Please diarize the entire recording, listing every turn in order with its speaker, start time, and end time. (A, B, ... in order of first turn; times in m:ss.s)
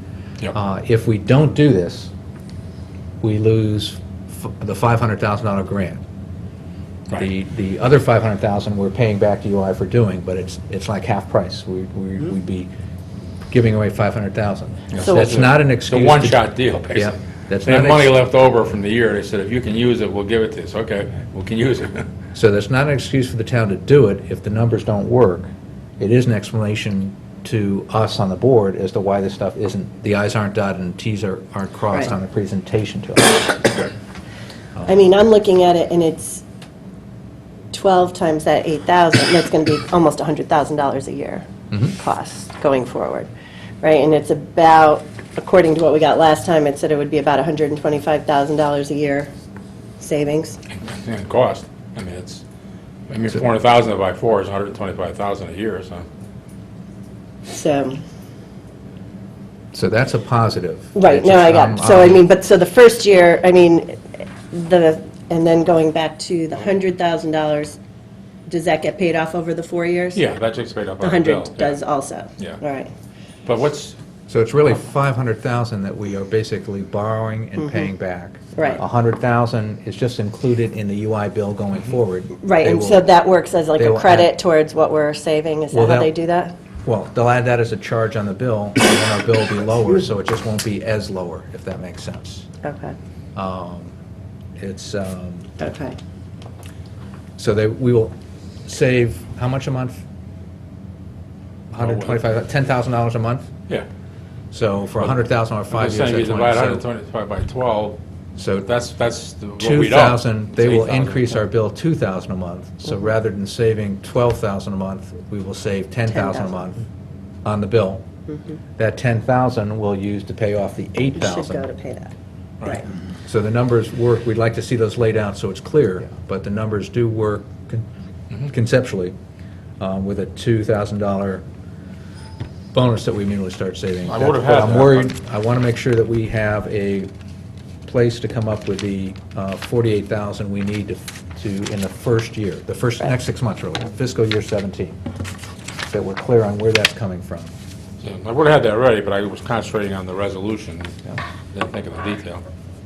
0:00.5-0:02.1 A
0:03.2-0:06.0 A
0:07.1-0:12.7 A
0:13.5-0:18.1 A
0:14.9-0:22.1 B
0:15.0-0:15.4 C
0:22.3-0:25.5 A
0:26.0-0:33.8 A
0:34.8-0:36.4 C
0:37.7-0:43.3 C
0:43.8-0:49.3 C
0:50.0-0:50.6 C
0:50.7-0:52.4 B
0:53.1-0:56.0 B
0:57.5-0:58.0 C
0:59.7-1:02.2 A
1:00.9-1:07.8 C
1:08.5-1:10.2 C
1:10.1-1:11.8 B
1:11.0-1:12.9 C
1:13.4-1:14.0 B
1:14.3-1:23.1 A
1:17.6-1:17.9 C
1:18.5-1:18.8 C
1:22.4-1:26.5 C
1:23.8-1:24.3 A
1:25.7-1:26.1 A
1:26.8-1:32.5 A
1:32.6-1:33.0 C
1:33.3-1:34.0 A
1:34.6-1:35.5 A
1:35.6-1:36.0 C
1:37.4-1:38.1 A
1:38.6-1:40.0 A
1:41.7-1:43.5 A
1:41.7-1:42.2 B
1:44.5-1:46.8 A
1:45.7-1:48.0 B
1:48.4-1:48.7 A
1:48.6-1:51.4 B
1:49.6-1:56.8 A
1:56.1-1:56.6 C
1:57.4-1:58.1 A
1:58.3-1:58.6 C
1:58.8-2:01.6 A
2:01.2-2:02.9 C
2:03.2-2:07.8 A
2:08.4-2:09.1 A
2:09.8-2:11.4 A
2:12.7-2:17.1 A
2:14.0-2:15.1 B
2:17.8-2:25.0 A
2:25.9-2:27.5 A
2:28.0-2:32.4 B